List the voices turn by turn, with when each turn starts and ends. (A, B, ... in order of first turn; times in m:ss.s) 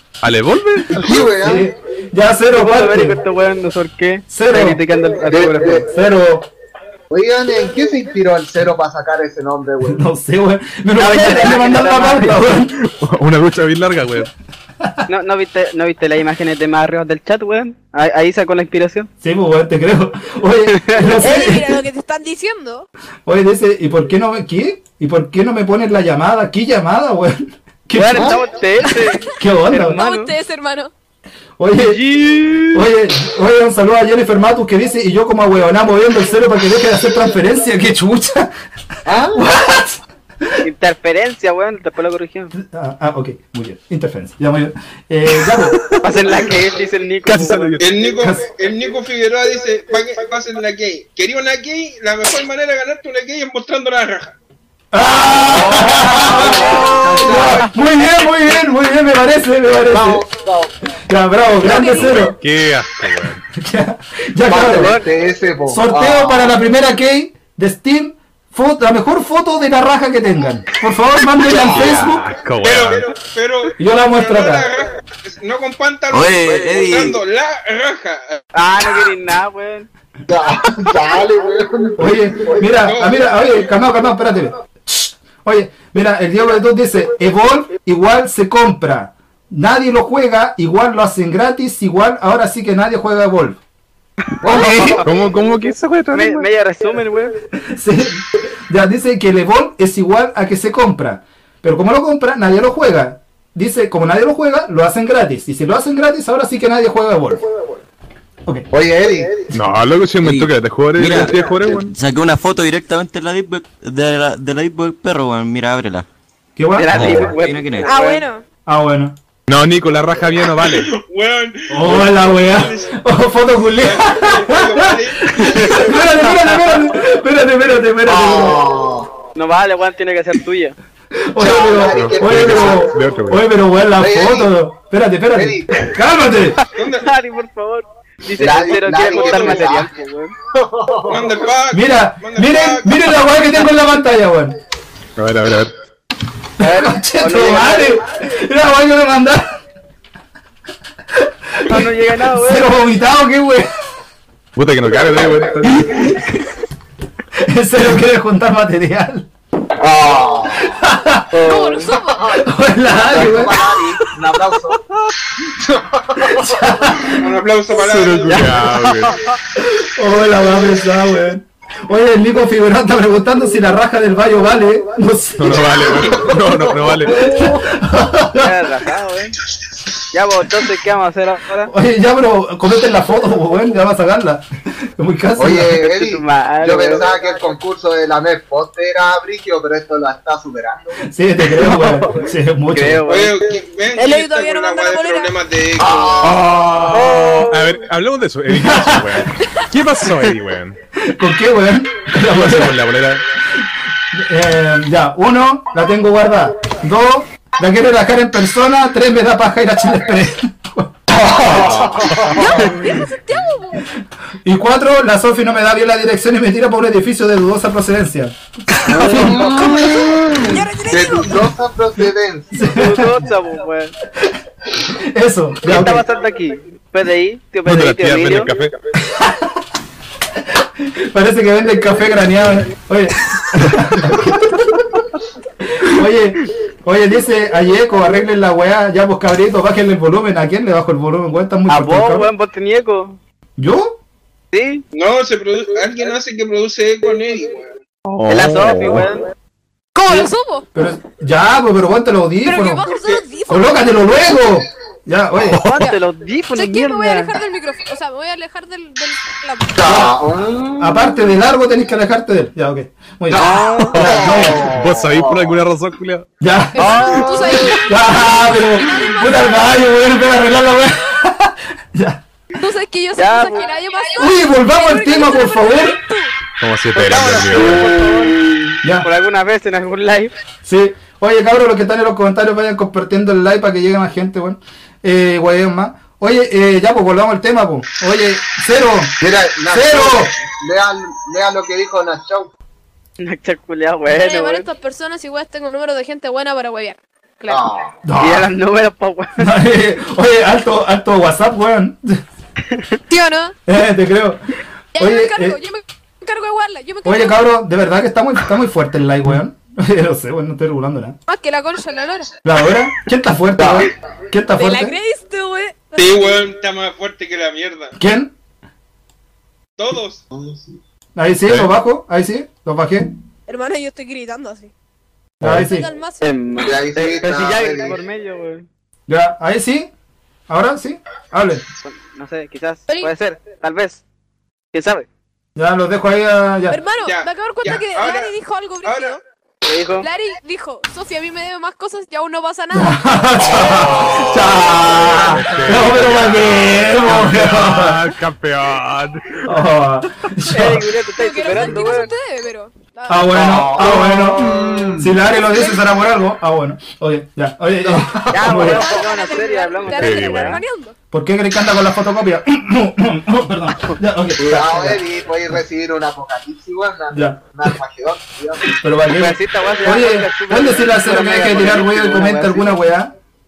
0:00.2-0:01.0 A
0:00.9-0:01.7 B
0:01.1-0:03.2 C
0:02.5-0:05.8 D
0:04.3-0:04.8 C
0:05.3-0:05.9 B
0:05.7-0:06.5 C
0:07.1-0:10.0 B
0:09.8-0:12.8 C
0:11.0-0:12.5 D
0:12.8-0:14.3 A
0:15.1-0:19.1 D
0:19.2-0:21.8 C
0:20.7-0:21.2 D
0:21.2-0:22.9 E
0:23.3-0:28.4 C
0:27.9-0:30.3 D
0:28.1-0:28.4 B
0:28.9-0:30.9 E
0:29.4-0:30.0 C
0:31.6-0:32.0 C
0:31.9-0:32.7 A
0:32.7-0:38.5 C
0:39.1-0:39.4 B
0:39.3-0:40.0 C
0:40.6-0:42.5 D
0:42.5-0:45.8 C
0:46.0-0:47.8 D
0:47.3-0:47.9 A
0:47.8-0:54.4 F
0:48.2-0:48.5 C
0:54.9-1:00.3 C
0:55.5-0:57.7 B
0:56.4-0:57.8 D
0:59.8-1:00.7 B
1:01.1-1:02.4 C
1:01.6-1:02.2 E
1:01.8-1:03.4 A
1:03.6-1:05.0 C
1:04.5-1:06.6 B
1:04.5-1:05.0 D
1:05.7-1:12.3 C
1:11.5-1:12.0 B
1:11.6-1:13.1 A
1:12.6-1:18.4 F
1:13.8-1:14.7 C
1:16.1-1:17.2 G
1:18.5-1:19.9 D
1:20.3-1:22.7 B
1:22.0-1:33.6 C
1:22.8-1:23.4 F
1:34.4-1:35.0 B
1:34.4-1:35.0 C
1:34.5-1:35.0 D
1:35.0-1:36.5 A
1:36.1-1:37.3 D
1:37.6-1:47.4 C
1:48.7-1:49.4 B
1:49.5-1:51.9 A
1:50.2-1:56.1 G
1:56.6-1:57.2 C
1:56.8-1:58.2 D
1:56.9-1:57.9 G
1:57.8-1:58.4 E
1:58.6-1:59.2 C
1:59.5-2:00.9 A
2:00.6-2:03.0 F
2:01.7-2:08.8 C
2:03.7-2:05.9 F
2:05.4-2:06.0 D
2:08.0-2:09.1 B
2:09.4-2:10.8 D
2:11.3-2:16.6 C
2:11.4-2:13.0 B
2:11.9-2:13.5 A
2:14.0-2:14.5 B
2:15.3-2:15.9 B
2:16.7-2:17.1 F
2:16.8-2:20.3 D
2:18.4-2:19.9 B
2:18.5-2:19.8 F
2:20.5-2:21.4 B
2:21.0-2:23.2 F
2:21.7-2:24.6 C
2:25.2-2:25.7 A
2:26.6-2:29.6 C
2:26.6-2:28.0 D
2:31.1-2:33.7 C
2:31.7-2:32.7 D
2:34.6-2:36.1 A
2:37.4-2:39.3 C
2:39.8-2:40.8 B
2:40.6-2:41.3 C
2:41.3-2:41.9 D
2:41.4-2:42.5 E
2:42.3-2:43.6 C
2:42.8-2:44.8 B
2:45.5-2:46.7 B
2:46.3-2:47.1 C
2:47.1-2:48.6 F
2:47.8-2:49.2 A
2:48.3-2:48.5 D
2:49.6-2:56.1 C
2:55.4-2:57.4 A
2:56.9-2:57.6 B
2:57.1-2:58.7 C
2:58.4-2:59.4 D
3:00.1-3:01.7 D
3:01.7-3:04.5 C
3:05.0-3:05.8 C
3:05.4-3:11.0 B
3:05.8-3:07.1 D
3:11.1-3:13.0 C
3:11.6-3:12.2 D
3:12.7-3:13.4 D
3:13.1-3:16.4 F
3:13.9-3:15.4 E
3:15.8-3:17.6 B
3:16.2-3:20.8 A
3:18.5-3:19.2 C
3:21.0-3:22.8 C
3:22.3-3:23.2 A
3:23.6-3:30.9 C
3:31.1-3:32.7 B
3:31.4-3:32.6 A
3:32.3-3:33.9 E
3:34.4-3:39.9 C
3:38.9-3:43.0 B
3:39.8-3:41.4 E
3:42.0-3:43.3 C
3:42.7-3:43.9 D
3:44.9-3:46.0 C
3:45.6-3:48.5 D
3:47.6-3:48.7 A
3:49.0-3:49.6 C
3:50.4-3:54.5 C
3:55.7-4:02.3 C
4:01.7-4:03.2 D
4:03.6-4:04.0 C
4:04.5-4:04.8 D
4:04.9-4:07.7 F
4:08.1-4:09.1 A
4:08.3-4:09.3 D
4:10.0-4:10.7 E
4:10.1-4:12.8 C
4:12.4-4:14.1 E
4:12.8-4:13.2 F
4:13.5-4:15.7 C
4:15.5-4:17.3 D
4:15.7-4:16.0 E
4:16.5-4:19.8 E
4:19.8-4:21.3 B
4:19.8-4:20.2 C
4:20.8-4:24.8 C
4:23.3-4:25.6 B
4:23.3-4:24.4 D
4:24.0-4:26.3 A
4:26.4-4:32.2 C
4:26.7-4:29.9 E
4:32.6-4:36.4 E
4:33.2-4:33.7 D
4:34.2-4:36.0 C
4:36.6-4:37.9 A
4:37.0-4:38.8 B
4:37.0-4:38.4 D
4:38.8-4:39.1 C
4:39.0-4:40.3 D
4:40.6-4:50.4 C
4:49.2-4:52.5 B
4:53.2-4:54.7 D
4:54.1-4:57.6 E
4:57.5-4:57.9 B
4:58.0-4:58.5 C
4:58.2-4:59.5 D
4:59.4-5:02.2 C
5:02.7-5:03.0 D
5:03.1-5:03.6 E
5:03.7-5:04.4 C
5:05.0-5:07.4 E
5:05.0-5:05.6 C
5:07.0-5:11.2 C
5:11.3-5:12.4 E
5:12.4-5:15.0 C
5:13.6-5:13.9 B
5:14.5-5:16.4 E
5:16.0-5:18.0 F
5:18.0-5:18.3 C
5:19.8-5:20.2 F
5:20.3-5:20.7 B
5:21.2-5:23.1 C
5:21.5-5:21.7 A
5:23.5-5:24.7 E
5:25.4-5:25.9 C
5:25.5-5:26.4 E
5:26.2-5:28.7 D
5:26.6-5:28.0 B
5:29.1-5:29.9 C
5:30.5-5:31.6 C
5:31.8-5:34.0 D
5:34.7-5:35.1 D
5:35.6-5:36.8 C
5:36.7-5:39.2 E
5:37.0-5:39.2 F
5:39.7-5:40.1 D
5:40.0-5:43.6 E
5:42.7-5:48.0 C
5:44.8-5:49.5 A
5:49.4-5:50.9 C
5:50.5-5:52.1 D
5:51.1-5:53.4 E
5:53.1-5:59.0 C
5:53.3-5:55.1 B
5:55.2-5:55.9 E
5:58.3-6:00.6 D
5:58.5-6:01.0 E
5:59.9-6:00.6 A
6:01.1-6:05.6 C
6:04.4-6:08.7 B
6:07.1-6:07.8 C
6:08.7-6:13.1 C
6:09.1-6:12.7 D